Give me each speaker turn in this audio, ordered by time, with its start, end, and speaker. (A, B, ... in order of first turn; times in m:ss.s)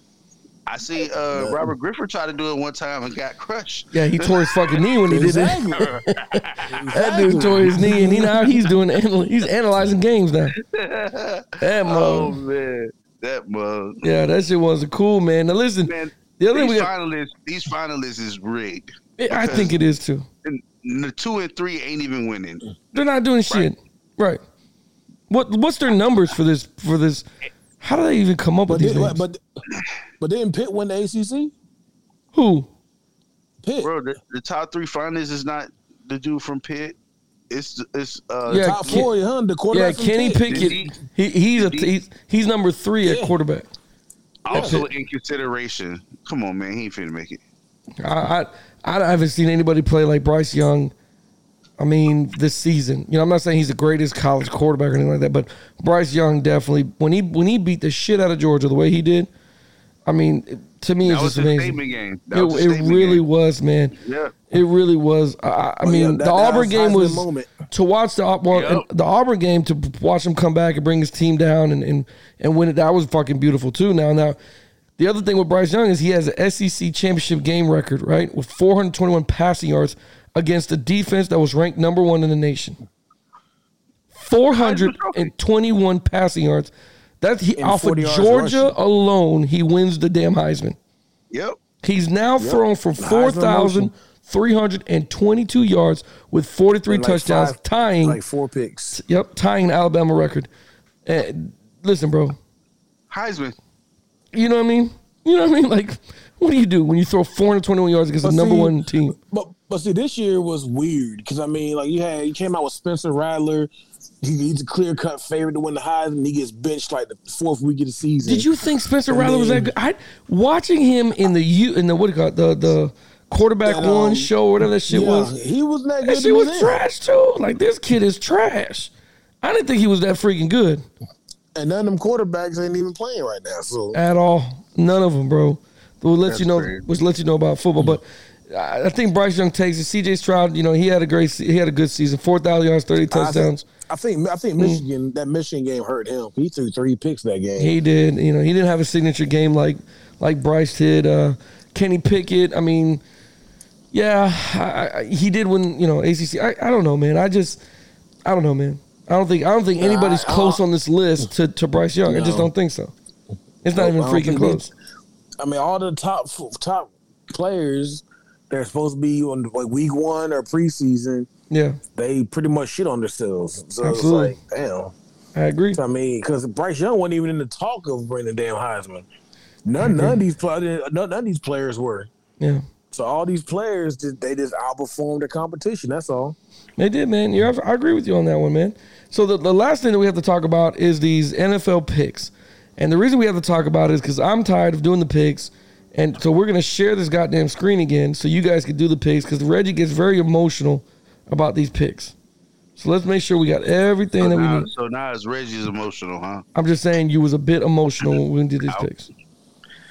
0:00.7-0:05.0 A
0:01.3-0:01.7 B
0:03.9-0:10.5 C
0:05.1-0:06.0 B
0:05.7-0:07.8 A
0:06.7-0:08.4 B
0:08.4-0:08.7 A
0:10.6-0:14.1 A
0:11.6-0:12.4 C
0:14.0-0:16.9 C
0:15.8-0:19.8 A
0:19.2-0:20.3 C
0:20.4-0:22.8 A
0:22.9-0:24.4 C
0:25.3-0:27.2 C
0:27.8-0:29.2 C
0:28.7-0:29.4 B
0:30.2-0:31.5 B
0:32.3-0:32.7 C
0:33.6-0:33.9 B
0:33.8-0:37.0 A
0:37.5-0:39.0 A
0:38.5-0:39.1 C
0:38.6-0:40.7 B
0:39.7-0:43.7 C
0:40.5-0:41.0 A
0:41.5-0:41.9 A
0:43.0-0:43.3 B
0:44.4-0:47.4 A
0:44.5-0:44.8 B
0:44.5-0:44.9 C
0:48.0-0:50.9 C
0:51.8-0:59.3 C
1:00.0-1:01.8 C
1:01.0-1:03.2 A
1:02.3-1:03.9 C
1:04.0-1:04.3 A
1:04.5-1:14.4 C
1:05.8-1:07.6 B
1:08.5-1:08.8 A
1:15.0-1:22.8 C
1:24.2-1:30.8 C
1:24.5-1:25.3 A
1:27.6-1:28.7 B
1:31.3-1:31.6 A
1:31.8-1:38.2 C
1:32.4-1:33.9 B
1:36.9-1:39.0 B
1:38.9-1:40.5 C
1:41.0-1:42.4 C
1:43.1-1:43.6 A
1:44.3-1:49.2 C
1:48.2-1:48.8 B
1:49.3-1:53.7 B
1:54.2-1:58.5 B
1:58.2-2:05.3 C
1:59.1-1:59.7 B
2:03.6-2:04.3 B
2:04.9-2:06.8 B
2:06.0-2:08.9 C
2:09.4-2:10.8 C
2:11.5-2:14.0 B
2:13.9-2:23.6 C
2:16.3-2:16.8 A
2:23.1-2:27.7 B
2:24.6-2:24.8 C
2:27.6-2:33.0 C
2:33.9-2:37.6 C
2:38.2-2:42.9 C
2:39.8-2:40.6 B
2:42.0-2:42.5 B
2:43.6-2:44.7 C
2:43.7-2:44.6 B
2:45.4-2:51.3 B
2:51.5-2:51.8 C
2:51.9-2:54.9 B
2:53.8-2:54.4 C
2:55.3-2:55.8 C
2:55.7-2:59.1 B
2:59.6-3:02.1 B
2:59.8-3:00.2 C
3:02.9-3:06.4 B
3:06.8-3:22.1 C
3:22.8-3:24.7 C
3:24.2-3:26.4 A
3:26.5-3:29.1 C